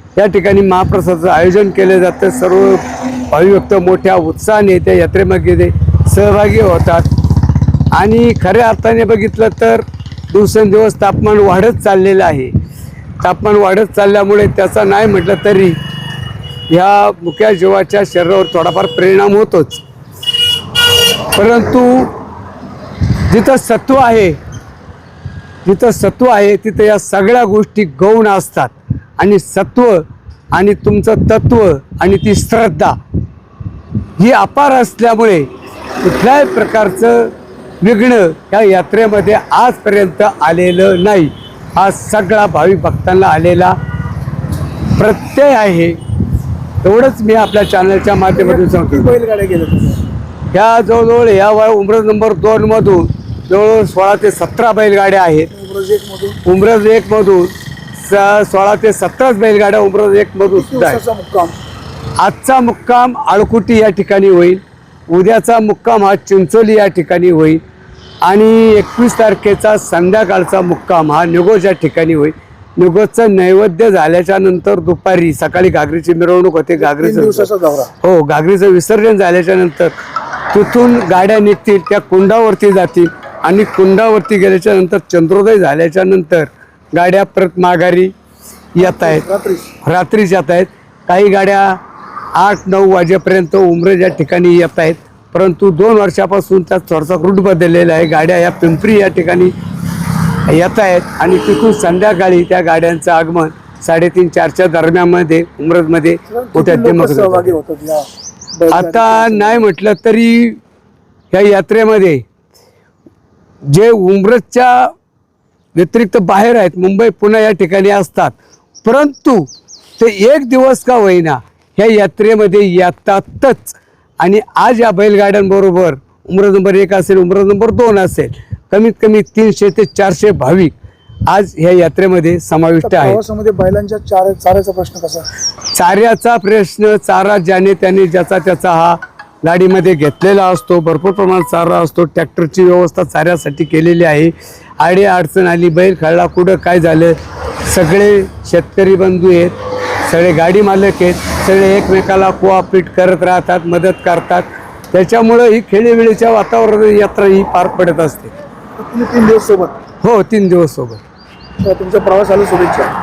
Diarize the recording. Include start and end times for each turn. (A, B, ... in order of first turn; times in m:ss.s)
0:00.2-0:07.1 A
0:07.9-0:12.5 A
0:13.2-0:15.8 A
0:16.7-0:19.8 A
0:21.3-0:22.1 A
0:23.3-0:24.4 A
0:25.6-0:33.0 A
0:34.2-0:43.8 A
0:44.9-0:46.0 A
0:46.8-0:49.2 A
0:48.3-0:50.0 B
0:50.5-0:55.5 A
0:55.5-0:56.4 B
0:56.4-1:01.0 A
1:00.5-1:01.5 B
1:02.2-1:07.6 A
1:08.2-1:17.5 A
1:16.8-1:17.9 B
1:18.0-1:19.9 A
1:20.5-1:28.1 A
1:28.8-1:29.2 A
1:28.8-1:29.7 B
1:29.8-1:31.8 A
1:32.3-1:39.5 A
1:40.5-1:47.5 A
1:46.3-1:48.1 B
1:48.6-1:49.6 B
1:48.7-1:50.6 A
1:51.3-1:52.2 A
1:53.6-1:54.9 A
1:55.7-2:10.7 A
2:11.3-2:13.2 A
2:12.8-2:15.3 B
2:15.7-2:38.3 A
2:38.8-2:39.8 B
2:40.0-2:41.0 A
2:41.6-2:42.9 B